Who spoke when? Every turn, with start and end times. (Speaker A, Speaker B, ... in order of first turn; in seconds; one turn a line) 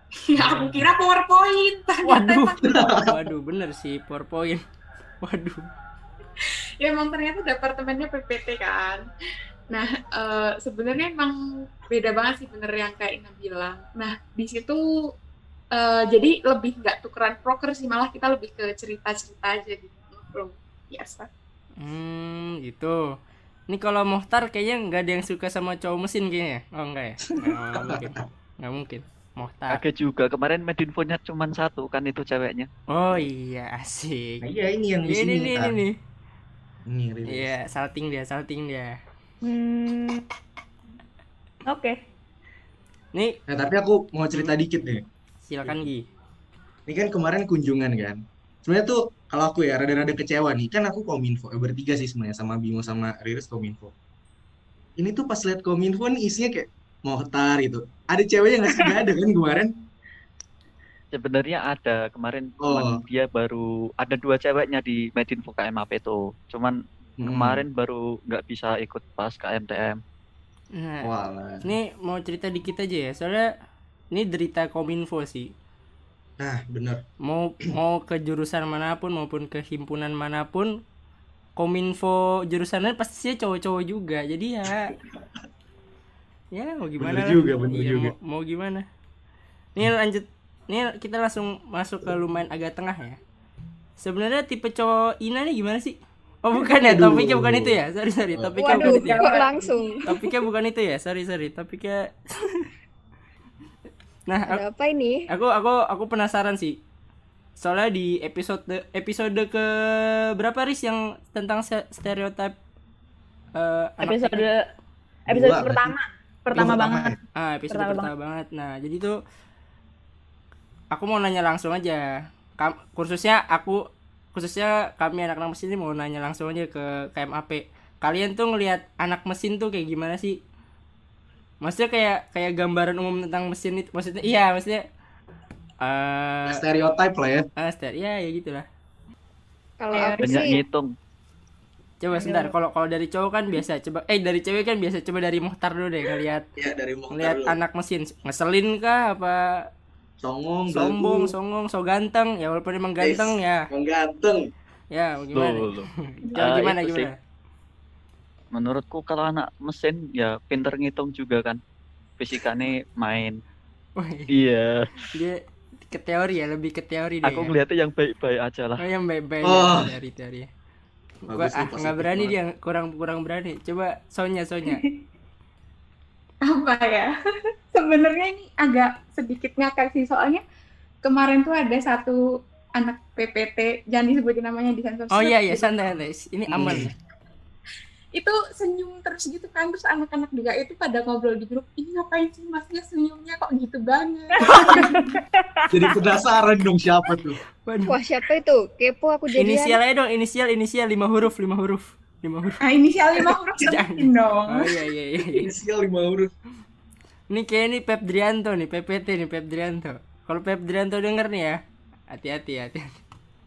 Speaker A: 0.3-2.8
Speaker B: 0.4-0.9
Speaker C: 2.0-4.6
Speaker B: 2.6-3.1
Speaker C: 5.2-5.7
Speaker A: 6.8-9.1
Speaker A: 9.7-11.3
Speaker A: 11.9-14.8
Speaker A: 15.7-21.3
Speaker C: 21.8-23.1
Speaker C: 23.7-29.8
Speaker B: 27.4-28.2
Speaker D: 29.7-32.7
Speaker C: 32.9-34.4
Speaker B: 34.4-35.8
Speaker C: 35.0-35.9
Speaker B: 36.9-37.5
Speaker C: 37.3-39.0
Speaker E: 39.4-40.2
Speaker E: 41.7-42.0
Speaker B: 43.5-45.0
Speaker C: 45.5-46.1
Speaker B: 46.9-53.9
Speaker B: 55.0-59.7
Speaker D: 61.1-70.0
Speaker B: 62.6-63.0
Speaker B: 67.2-67.6
Speaker C: 70.7-71.1
Speaker B: 71.0-71.7
Speaker C: 71.6-73.5
Speaker C: 74.1-75.5
Speaker B: 76.4-77.0
Speaker C: 77.2-80.7
Speaker C: 81.6-84.9
Speaker B: 84.9-85.2
Speaker C: 86.5-88.8
Speaker B: 87.0-88.1
Speaker C: 89.8-93.2
Speaker C: 94.0-99.4
Speaker B: 96.8-97.7
Speaker B: 98.3-98.6
Speaker F: 98.6-100.0
Speaker E: 98.8-99.4
Speaker C: 100.0-102.7
Speaker C: 104.3-104.6
Speaker F: 104.5-105.2
Speaker C: 105.3-106.8
Speaker C: 107.6-112.6
Speaker C: 113.5-114.5
Speaker E: 114.0-114.6
Speaker B: 115.3-115.9
Speaker E: 115.3-117.1
Speaker B: 116.5-117.2
Speaker C: 117.3-119.2
Speaker E: 117.7-118.1
Speaker C: 120.9-122.1
Speaker C: 122.6-130.4
Speaker C: 131.6-134.8
Speaker C: 135.8-136.6
Speaker B: 136.4-137.4
Speaker C: 137.6-138.6
Speaker F: 139.8-140.6
Speaker A: 139.9-140.5
Speaker D: 140.2-140.9
Speaker C: 142.0-146.4
Speaker B: 146.6-147.6
Speaker C: 147.1-149.4
Speaker B: 150.2-151.3
Speaker C: 150.7-153.7
Speaker B: 153.0-154.5
Speaker C: 154.9-157.2
Speaker D: 155.3-157.1
Speaker D: 158.5-161.6
Speaker D: 162.2-163.4
Speaker C: 164.0-164.3
Speaker D: 164.3-164.9
Speaker C: 165.1-167.5
Speaker D: 167.2-168.8
Speaker C: 168.8-170.5
Speaker B: 169.4-169.9
Speaker B: 171.2-172.3
Speaker C: 171.4-174.8
Speaker A: 176.4-177.1
Speaker A: 177.7-180.4
Speaker A: 181.0-182.2
Speaker A: 182.8-185.8
Speaker C: 185.1-186.9
Speaker B: 186.5-186.9
Speaker A: 188.1-195.0
Speaker E: 194.7-195.8
Speaker B: 195.7-197.4
Speaker C: 197.7-197.9
Speaker F: 197.9-199.8
Speaker C: 199.4-202.6
Speaker A: 202.6-204.8
Speaker C: 203.7-205.5
Speaker B: 205.2-206.3
Speaker C: 207.3-211.6
Speaker C: 212.1-212.9